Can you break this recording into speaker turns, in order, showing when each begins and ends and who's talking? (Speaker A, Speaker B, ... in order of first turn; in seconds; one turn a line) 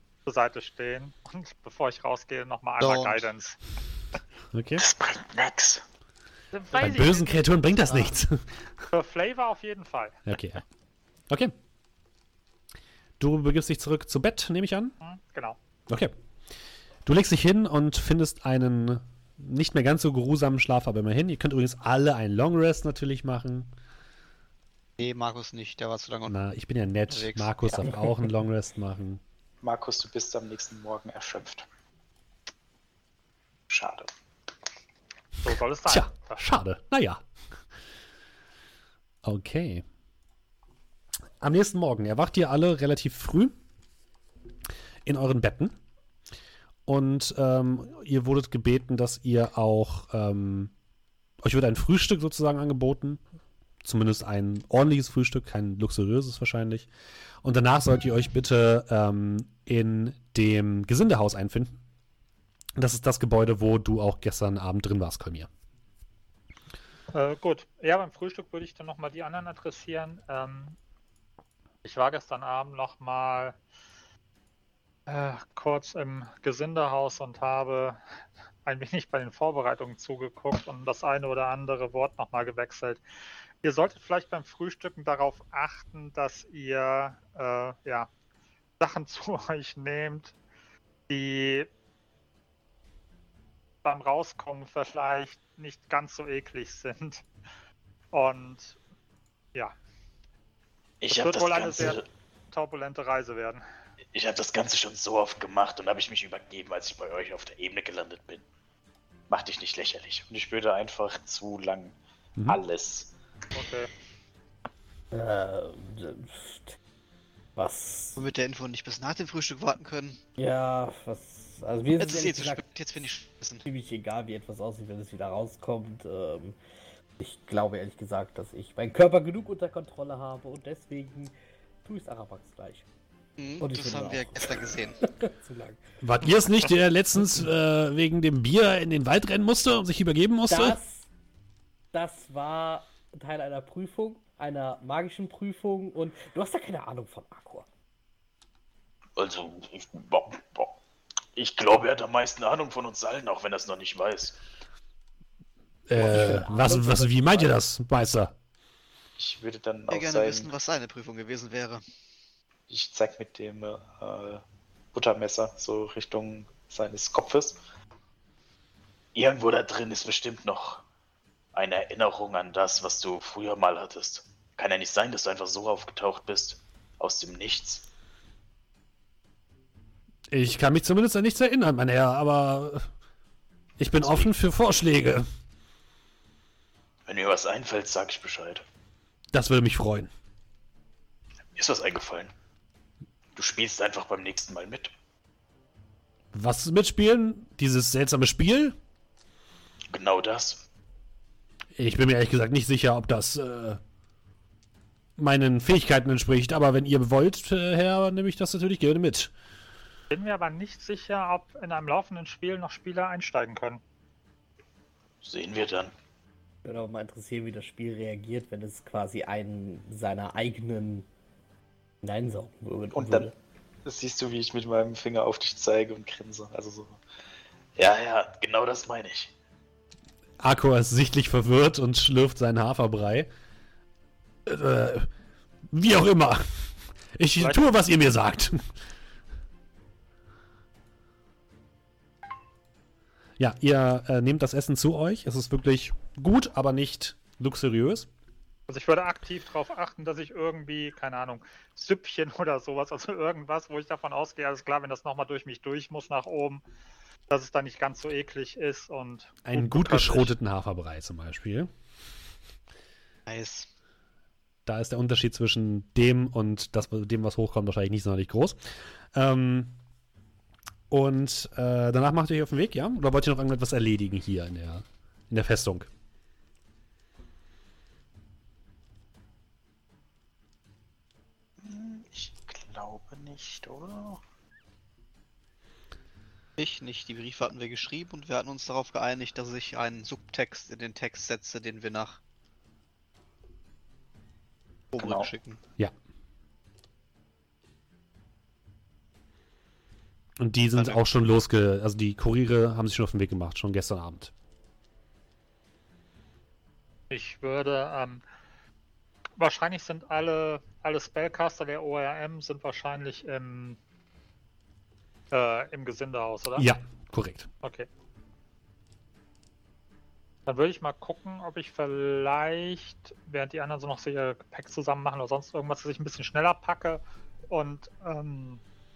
Speaker A: 0.2-3.6
Speaker B: 2.8-3.2
Speaker C: 4.5-4.8
Speaker D: 4.8-5.8
Speaker A: 6.5-7.4
Speaker C: 6.7-8.8
Speaker A: 8.9-10.6
Speaker C: 10.3-10.6
Speaker C: 13.2-14.9
Speaker A: 15.0-15.6
Speaker C: 15.9-16.1
Speaker C: 17.1-23.7
Speaker B: 25.0-26.3
Speaker C: 26.3-29.2
Speaker B: 27.1-27.7
Speaker D: 29.6-31.6
Speaker D: 33.7-34.1
Speaker A: 35.4-36.4
Speaker C: 35.9-37.2
Speaker C: 39.2-39.8
Speaker C: 41.4-43.5
Speaker C: 45.0-45.7
Speaker C: 46.9-50.7
Speaker C: 51.4-53.2
Speaker C: 53.8-56.9
Speaker C: 57.4-61.8
Speaker C: 62.8-65.5
Speaker A: 67.1-70.8
Speaker A: 71.8-73.5
Speaker A: 75.1-78.0
Speaker A: 78.6-83.0
Speaker A: 83.6-88.1
Speaker A: 88.8-90.3
Speaker A: 91.1-91.7
Speaker A: 93.8-97.2
Speaker A: 98.1-98.8
Speaker D: 101.0-102.0
Speaker A: 101.1-103.6
Speaker D: 104.1-108.4
Speaker D: 109.3-111.9
Speaker D: 112.5-113.1
Speaker A: 113.5-113.9
Speaker E: 115.1-116.8
Speaker E: 117.5-118.2
Speaker B: 118.2-120.2
Speaker E: 120.4-122.6
Speaker B: 122.0-123.7
Speaker E: 123.7-126.5
Speaker E: 127.2-131.3
Speaker E: 131.8-132.8
Speaker B: 133.4-135.0
Speaker E: 133.6-135.8
Speaker C: 136.0-140.8
Speaker E: 140.5-141.1
Speaker E: 141.9-147.7
Speaker D: 149.2-150.7
Speaker D: 151.3-154.3
Speaker C: 155.9-158.3
Speaker E: 155.9-157.5
Speaker D: 159.2-160.5
Speaker B: 159.9-161.8
Speaker D: 162.7-164.4
Speaker D: 164.9-167.6
Speaker D: 169.1-170.8
Speaker D: 171.5-177.9
Speaker C: 180.3-182.9
Speaker C: 183.8-185.2
Speaker D: 184.0-184.3
Speaker D: 187.1-188.6
Speaker C: 189.3-190.1
Speaker D: 191.5-192.3
Speaker D: 193.3-194.9
Speaker C: 196.3-198.8
Speaker D: 199.9-200.6
Speaker C: 201.7-203.8
Speaker C: 205.2-209.3
Speaker A: 210.1-213.8
Speaker D: 215.2-215.9
Speaker E: 216.6-221.1
Speaker E: 222.0-223.3
Speaker D: 222.9-223.3
Speaker D: 223.8-227.0
Speaker D: 227.8-229.3
Speaker C: 230.4-233.3
Speaker C: 234.4-235.1
Speaker C: 235.7-238.7
Speaker C: 243.4-248.1
Speaker A: 248.7-256.6
Speaker A: 257.3-260.3
Speaker C: 259.4-261.7
Speaker B: 263.3-263.7
Speaker C: 264.6-268.6
Speaker C: 269.1-269.7
Speaker C: 270.9-275.9
Speaker D: 281.6-284.2
Speaker B: 286.6-292.2
Speaker B: 294.9-295.6
Speaker D: 295.0-295.3
Speaker C: 300.4-304.3
Speaker B: 300.8-301.0
Speaker A: 307.1-308.2
Speaker A: 309.4-313.8
Speaker A: 315.3-316.7
Speaker C: 316.6-317.5
Speaker A: 317.6-317.9
Speaker A: 320.5-328.6